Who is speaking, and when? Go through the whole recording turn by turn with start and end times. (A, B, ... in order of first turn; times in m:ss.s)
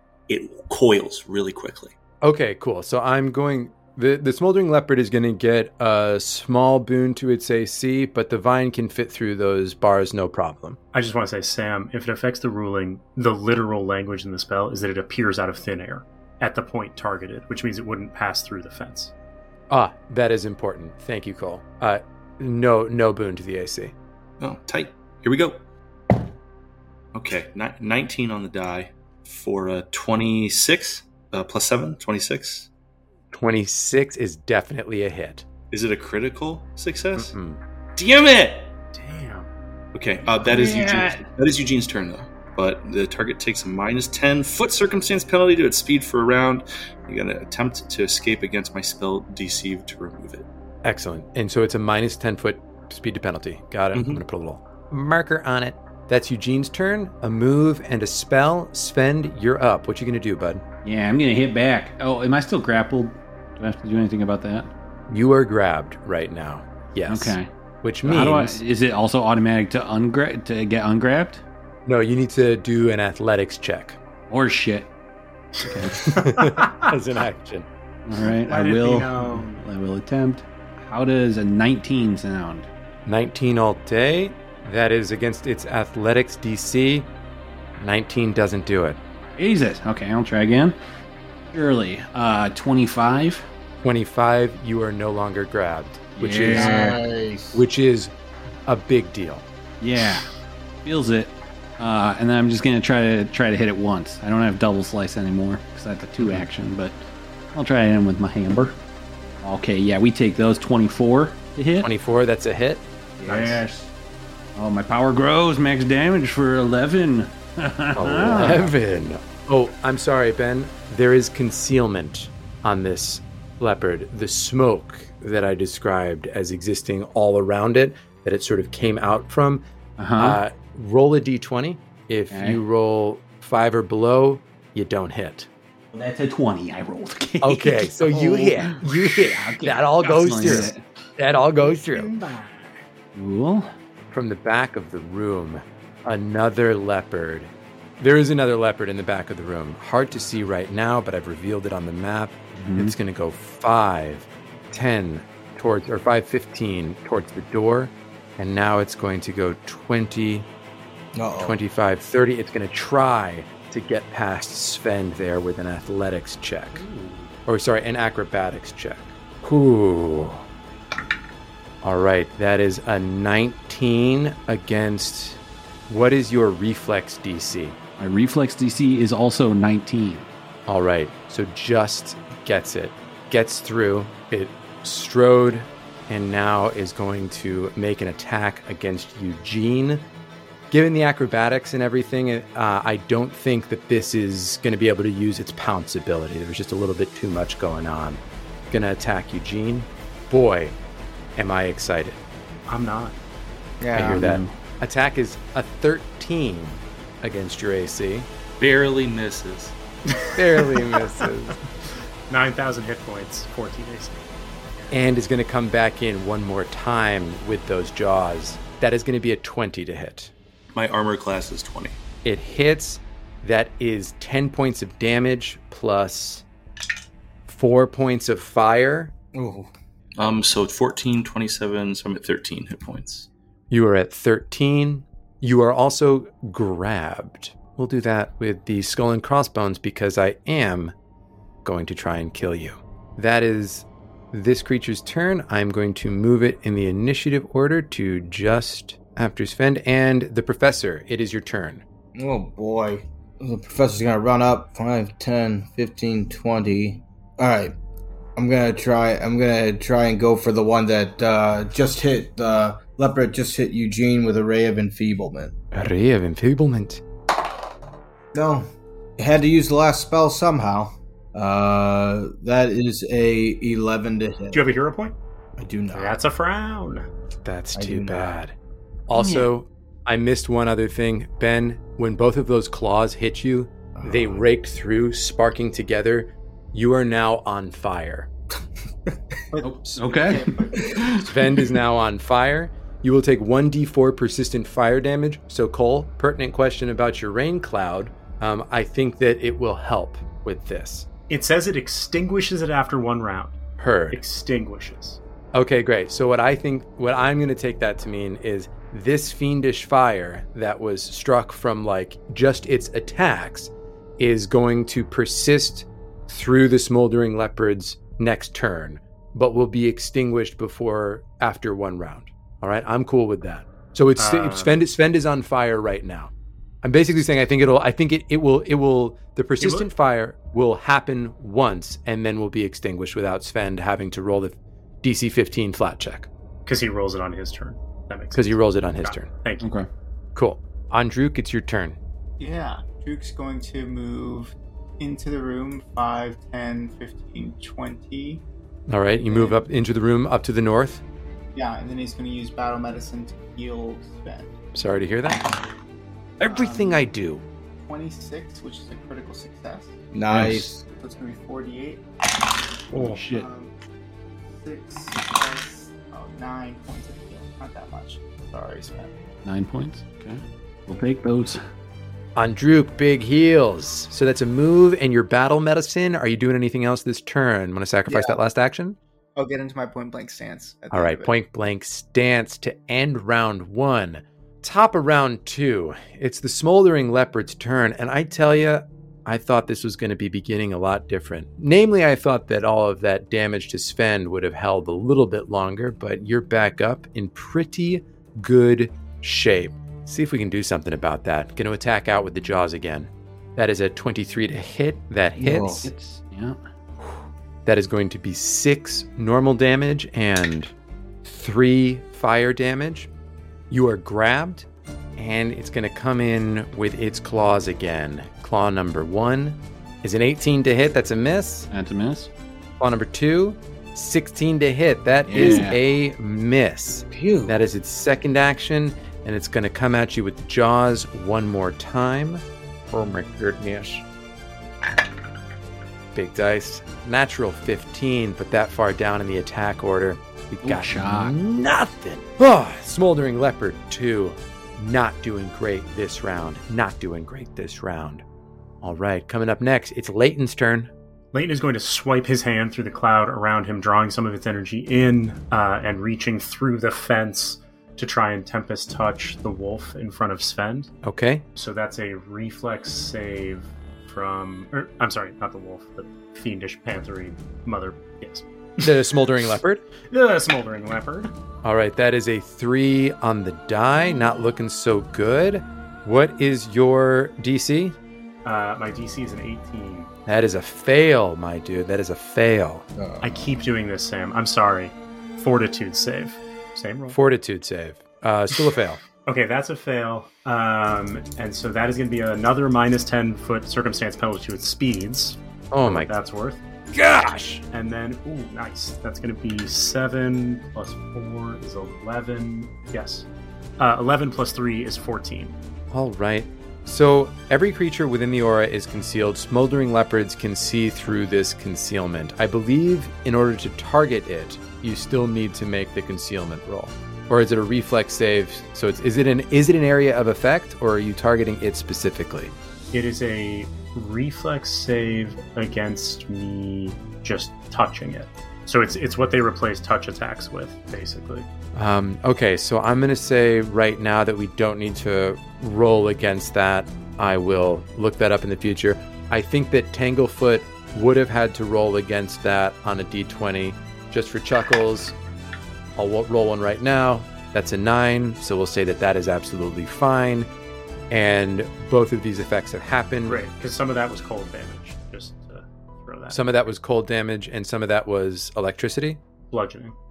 0:00.3-0:01.9 A
0:02.2-0:10.8 B
0:10.9-0:19.1 C
0:19.7-0:23.9 B
0:24.4-0:25.6 A
0:27.1-0:32.7 A
0:33.3-0:35.4 B
0:35.7-0:37.3 A
0:37.1-0:37.6 B
0:38.0-0:38.7 A
0:38.9-0:39.5 C
0:39.9-0:50.4 A
0:40.4-0:41.3 D
0:50.8-1:00.6 B
0:53.9-0:54.2 A
1:00.8-1:04.7 D
1:05.1-1:08.6 B
1:07.1-1:07.5 D
1:08.0-1:11.4 D
1:11.8-1:14.0 B
1:14.3-1:14.9 D
1:15.6-1:16.2 D
1:16.0-1:16.9 C
1:16.1-1:17.7 B
1:18.0-1:22.7 D
1:18.4-1:19.6 C
1:23.0-1:27.1 B
1:27.8-1:29.0 B
1:29.4-1:30.8 D
1:31.5-1:33.5 D
1:33.8-1:37.0 B
1:36.2-1:37.0 D
1:36.5-1:37.6 E
1:37.5-1:38.1 B
1:38.6-1:39.4 B
1:39.8-1:40.3 D
1:40.8-1:47.0 D
1:47.5-1:48.8 D
1:49.4-1:51.9 D
1:51.8-1:52.8 B
1:53.2-1:53.9 D
1:54.6-1:58.7 D
1:57.9-2:09.6 B
2:10.0-2:10.4 D
2:10.2-2:15.5 B
2:12.3-2:12.6 D
2:15.9-2:20.8 D
2:17.4-2:22.1 B
2:20.0-2:20.6 C
2:21.6-2:22.8 C
2:23.1-2:23.7 D
2:24.1-2:40.5 B
2:32.6-2:32.9 D
2:41.1-2:41.6 E
2:41.4-2:46.8 B
2:47.4-2:50.4 B
2:51.8-2:57.8 B
2:58.0-3:00.3 D
3:00.7-3:10.0 B
3:10.7-3:20.8 B
3:21.4-3:22.2 B
3:22.7-3:23.2 C
3:23.8-3:24.3 F
3:23.9-3:28.3 B
3:24.0-3:24.5 D
3:28.6-3:29.7 A
3:30.2-3:30.9 C
3:30.3-3:31.6 B
3:32.3-3:34.2 C
3:34.9-3:40.3 B
3:40.7-3:42.0 A
3:42.2-3:46.4 B
3:47.4-3:49.1 B
3:49.3-3:49.7 E
3:50.2-3:53.3 A
3:53.7-4:00.9 B
4:01.6-4:11.8 B
4:12.1-4:17.7 E
4:18.4-4:25.5 E
4:25.7-4:27.0 B
4:28.3-4:34.7 E
4:34.5-4:35.2 C
4:35.6-4:36.2 E
4:35.9-4:37.0 C
4:37.4-4:38.5 B
4:37.7-4:38.4 E
4:39.1-4:48.3 B
4:39.2-4:39.5 D
4:43.9-4:44.4 E
4:49.5-4:50.9 F
4:49.6-4:51.3 D
4:51.2-5:01.1 B
5:01.3-5:03.6 C
5:03.8-5:04.2 B
5:04.1-5:05.2 C
5:05.5-5:26.3 B
5:24.2-5:24.8 C
5:26.8-5:36.3 B
5:29.6-5:29.9 C
5:36.6-5:39.7 C
5:38.3-5:39.3 B
5:39.6-5:39.9 D
5:40.3-5:42.0 B
5:42.4-5:48.4 F
5:48.9-5:51.0 B
5:49.2-5:49.6 F
5:51.5-5:54.5 F
5:54.7-5:55.5 B
5:56.4-5:57.4 B
5:56.4-5:57.0 F
5:57.8-5:59.9 F
6:00.1-6:00.8 E
6:00.3-6:00.7 D
6:00.9-6:02.0 F
6:02.9-6:03.2 C
6:02.9-6:03.5 D
6:03.1-6:03.7 F
6:04.5-6:09.1 F
6:09.4-6:11.6 D
6:12.4-6:19.0 B
6:18.1-6:18.4 F
6:19.4-6:21.3 F
6:20.9-6:45.9 B
6:45.4-6:45.9 E
6:45.8-6:46.6 D
6:47.0-6:50.7 B
6:51.2-6:53.1 B
6:53.7-7:01.7 B
7:01.7-7:02.3 D
7:02.8-7:14.0 B
7:05.3-7:05.8 D
7:05.3-7:05.7 E
7:07.1-7:07.5 E
7:16.1-7:28.2 B
7:20.6-7:21.4 D
7:28.8-7:30.9 B
7:31.3-7:40.9 C
7:41.0-7:41.4 B
7:41.5-7:48.9 C
7:48.8-7:49.8 B
7:50.1-7:51.3 C
7:51.6-7:58.0 B
7:58.4-8:00.1 C
8:00.2-8:02.8 B
8:03.0-8:03.6 E
8:03.2-8:07.2 C
8:07.1-8:09.0 B
8:09.2-8:16.6 C
8:15.7-8:16.1 B
8:16.9-8:17.6 B
8:17.7-8:23.2 C
8:23.8-8:25.5 C
8:25.9-8:42.5 B
8:42.9-8:51.4 C
8:51.7-9:05.2 B
9:06.0-9:10.5 B
9:11.1-9:13.4 B
9:13.2-9:16.4 C
9:16.3-9:19.2 B
9:19.5-9:19.9 C